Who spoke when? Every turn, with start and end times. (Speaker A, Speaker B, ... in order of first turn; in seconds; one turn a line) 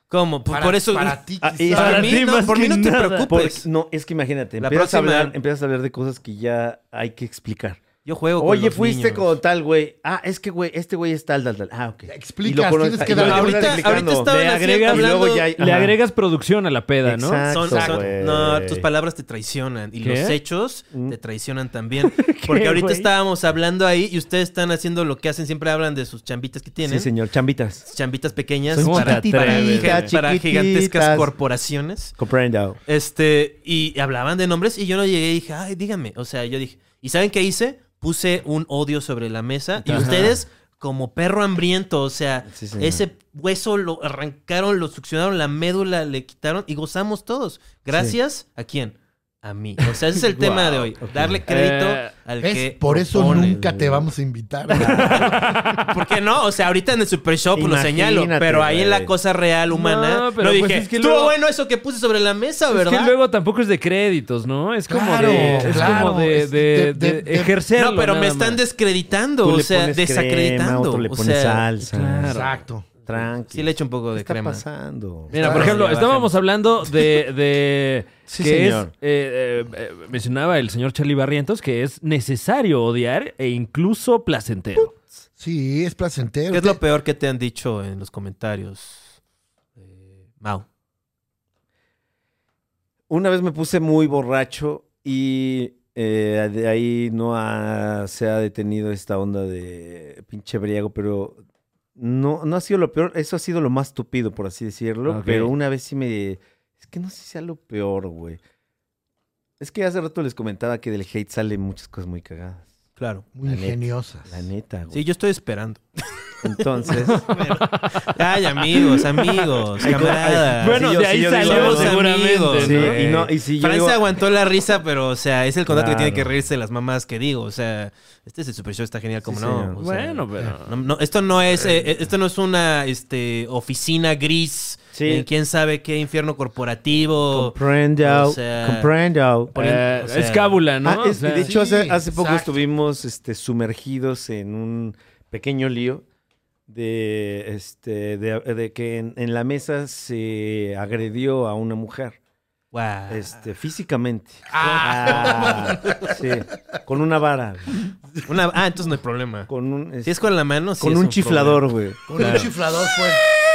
Speaker A: 0.1-3.7
Speaker B: 0.5-2.2
Speaker C: 1.4-2.1
Speaker D: 1.7-3.3
Speaker C: 3.3-7.8
Speaker A: 4.6-5.3
Speaker A: 8.1-9.3
Speaker C: 8.4-16.0
Speaker B: 12.1-14.1
Speaker A: 13.0-15.5
Speaker D: 14.3-17.5
Speaker C: 17.0-18.9
Speaker A: 17.5-27.1
Speaker B: 17.7-18.0
Speaker D: 20.0-20.4
Speaker C: 20.9-21.2
Speaker D: 22.1-23.1
Speaker C: 26.8-27.9
Speaker A: 27.9-32.1
Speaker C: 28.7-31.3
Speaker D: 28.8-30.1
Speaker C: 32.2-32.8
Speaker A: 32.9-53.6
Speaker C: 39.8-40.4
Speaker D: 39.9-40.3
Speaker C: 42.5-43.0
Speaker C: 47.9-48.2
Speaker C: 50.4-51.4
Speaker D: 51.5-52.1
Speaker B: 52.4-55.5
Speaker C: 53.2-54.1
Speaker C: 54.7-55.5
Speaker D: 54.8-56.0
Speaker A: 55.8-63.1
Speaker C: 57.5-59.1
Speaker D: 59.7-61.4
Speaker D: 62.7-68.6
Speaker B: 64.9-67.5
Speaker C: 65.1-66.1
Speaker A: 67.8-71.7
Speaker C: 69.4-72.3
Speaker D: 71.8-72.6
Speaker B: 72.2-72.9
Speaker C: 73.1-75.7
Speaker A: 73.5-74.6
Speaker A: 75.3-76.4
Speaker D: 75.3-84.9
Speaker B: 75.3-75.7
Speaker C: 78.3-78.9
Speaker B: 85.4-86.8
Speaker A: 86.5-89.2
Speaker A: 90.4-90.7
Speaker C: 93.1-101.4
Speaker C: 102.0-108.4
Speaker D: 105.1-105.5
Speaker C: 109.6-112.7
Speaker A: 113.0-113.3
Speaker B: 113.3-114.4
Speaker C: 113.4-115.0
Speaker A: 114.9-115.8
Speaker C: 116.4-117.2
Speaker D: 117.0-118.1
Speaker A: 117.3-138.9
Speaker D: 118.7-123.0
Speaker C: 119.8-124.0
Speaker C: 125.7-126.3
Speaker C: 129.2-129.8
Speaker D: 129.8-130.8
Speaker C: 134.9-135.3
Speaker C: 137.3-139.6
Speaker A: 139.5-140.6
Speaker D: 139.6-141.5
Speaker C: 140.8-146.0
Speaker B: 141.4-142.5
Speaker C: 146.7-152.2
Speaker A: 152.7-153.4
Speaker C: 153.1-157.7
Speaker B: 154.5-156.2
Speaker A: 154.6-156.2
Speaker A: 158.3-159.5
Speaker C: 159.5-160.2
Speaker A: 160.0-161.6
Speaker C: 160.8-162.5
Speaker B: 162.1-163.2
Speaker D: 162.2-162.5